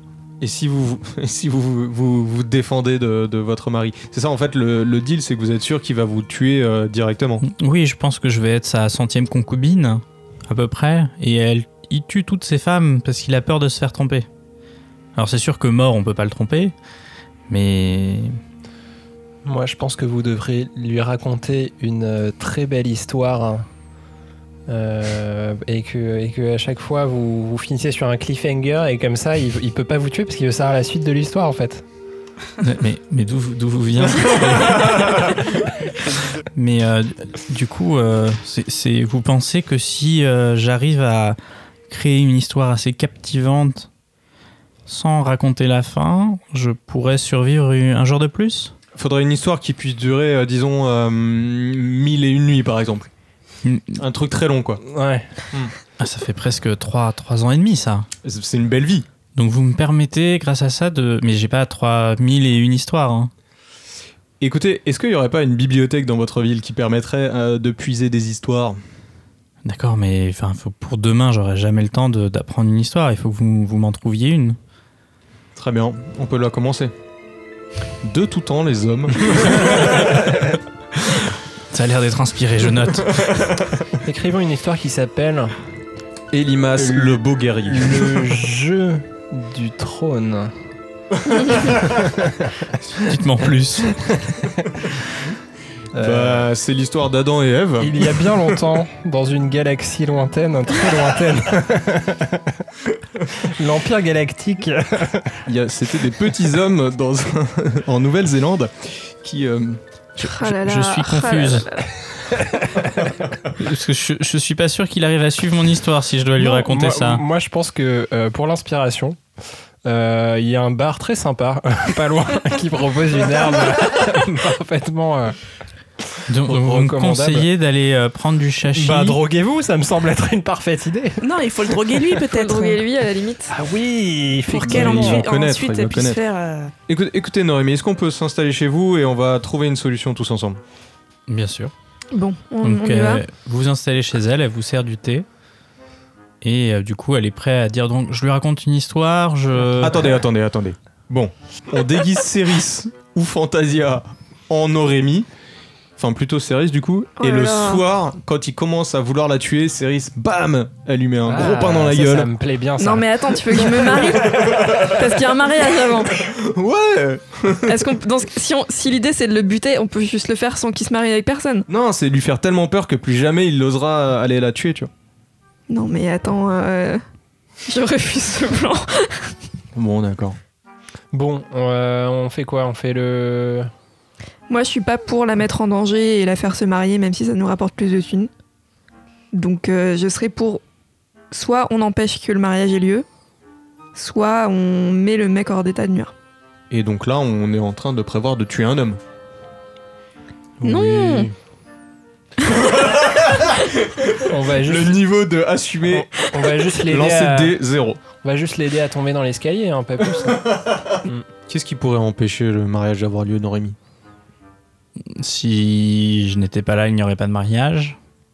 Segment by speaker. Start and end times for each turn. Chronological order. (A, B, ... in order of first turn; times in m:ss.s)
0:00.4-0:07.4 A
0:07.4-0:14.3 B
0:15.2-0:16.8 B
0:17.5-0:18.4 B
0:19.4-0:23.7 C
0:24.7-0:31.8 C
0:32.6-0:35.4 B
0:36.5-0:41.4 B
0:41.9-0:43.9 B
0:44.9-0:48.8 B
0:49.0-0:53.1 A
0:53.6-0:54.0 B
0:54.0-0:54.8 A
0:54.8-0:55.3 C
0:56.0-0:58.1 B
0:58.2-0:59.1 A
0:59.4-1:03.3 B
1:04.4-1:08.8 A
1:09.6-1:14.6 B
1:15.6-1:16.9 A
1:18.0-1:20.2 A
1:20.0-1:20.5 C
1:21.7-1:23.2 B
1:24.0-1:25.6 C
1:26.3-1:28.4 A
1:26.8-1:30.5 C
1:31.3-1:31.8 A
1:31.6-1:32.7 C
1:33.0-1:34.1 B
1:34.1-1:34.9 C
1:35.9-1:36.5 C
1:36.0-1:38.4 A
1:37.8-1:42.6 C
1:43.3-1:45.4 C
1:45.5-1:49.8 A
1:50.2-1:51.7 B
1:50.2-1:52.0 D
1:52.3-1:53.1 C
1:53.6-1:57.2 B
1:56.4-1:59.2 C
1:59.8-2:05.4 C
2:06.3-2:09.2 B
2:06.4-2:07.5 C
2:08.7-2:11.3 C
2:11.2-2:12.9 E
2:11.9-2:12.2 C
2:12.3-2:13.5 D
2:13.5-2:15.2 C
2:14.5-2:16.7 E
2:14.7-2:16.2 A
2:16.9-2:20.6 A
2:21.3-2:21.7 B
2:22.1-2:23.2 D
2:22.6-2:25.3 B
2:26.4-2:30.1 B
2:29.8-2:35.3 A
2:36.0-2:42.3 A
2:37.2-2:37.8 D
2:41.3-2:44.5 C
2:42.8-2:46.2 D
2:43.7-2:48.0 A
2:47.6-2:51.7 D
2:51.7-2:54.9 A
2:55.7-2:57.0 D
2:57.7-2:59.3 D
2:59.8-3:00.4 A
3:01.1-3:03.7 C
3:04.5-3:08.3 D
3:09.3-3:10.6 D
3:11.3-3:13.0 D
3:14.0-3:16.1 D
3:16.7-3:19.0 A
3:20.6-3:21.0 B
3:20.6-3:21.3 D
3:22.4-3:26.1 A
3:24.3-3:25.0 C
3:25.9-3:30.5 C
3:26.8-3:28.0 A
3:30.2-3:33.8 A
3:35.1-3:38.0 B